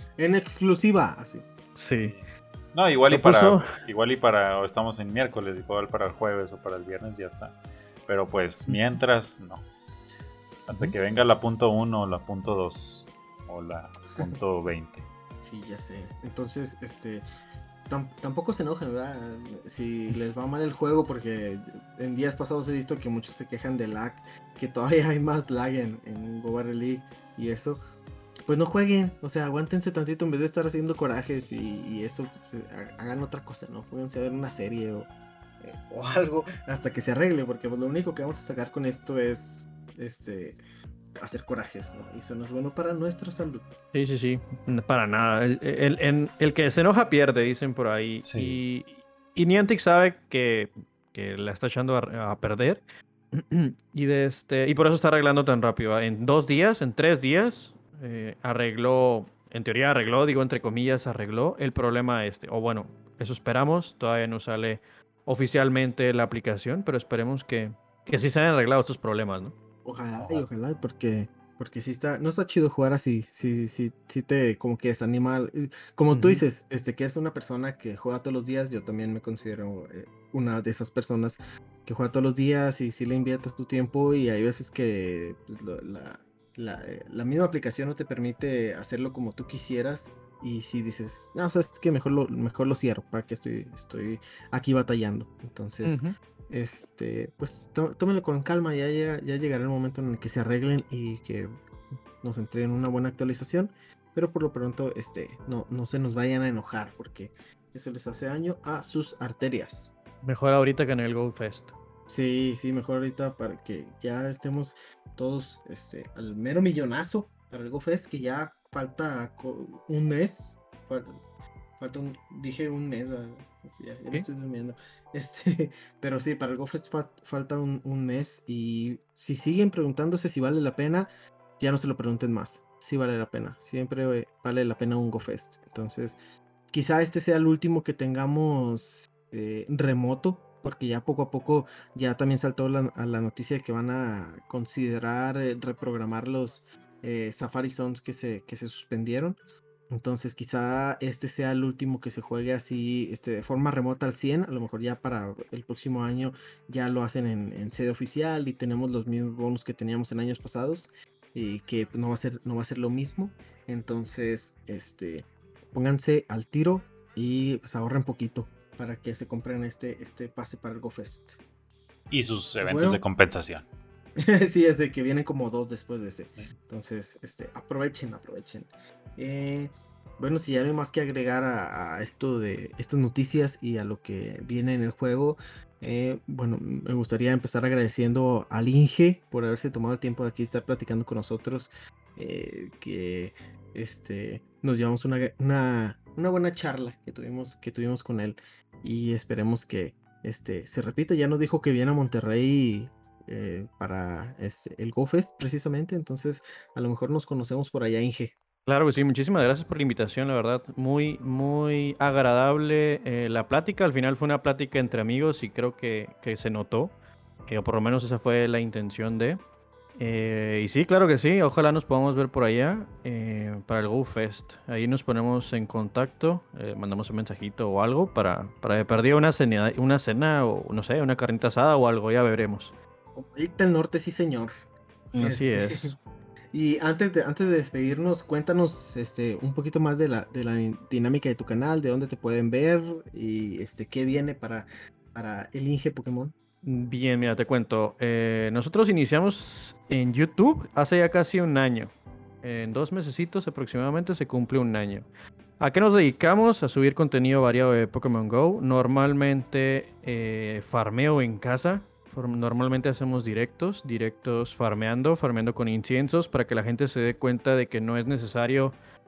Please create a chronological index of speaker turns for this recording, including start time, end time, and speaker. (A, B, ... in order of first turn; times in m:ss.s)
0:00.2-0:01.5 A
0:01.8-0:02.2 B
0:02.0-0:09.6 C
0:03.1-0:03.7 B
0:10.7-0:15.1 C
0:15.4-0:17.2 A
0:17.9-0:27.8 A
0:28.5-0:35.1 A
0:35.6-0:40.6 A
0:41.2-0:43.7 A
0:43.9-1:09.6 B
0:48.2-0:48.6 C
1:09.8-1:41.5 A
1:10.1-1:10.5 C
1:16.1-1:16.4 B
1:35.8-1:36.2 B
1:42.2-1:49.9 A
1:50.2-1:51.7 B
1:52.1-2:01.2 A
2:01.8-2:11.1 A
2:11.6-2:16.2 A
2:16.7-2:29.4 A
2:29.9-2:51.4 A
2:52.1-2:53.7 C
2:52.6-2:53.0 A
2:54.2-3:28.4 A
3:28.7-3:36.9 B
3:37.5-3:39.4 B
3:40.0-3:52.7 B
3:53.2-3:54.5 A
3:55.1-3:56.0 B
3:55.2-3:56.0 A
3:56.5-4:06.3 A
4:06.6-4:15.1 B
4:15.6-4:28.8 B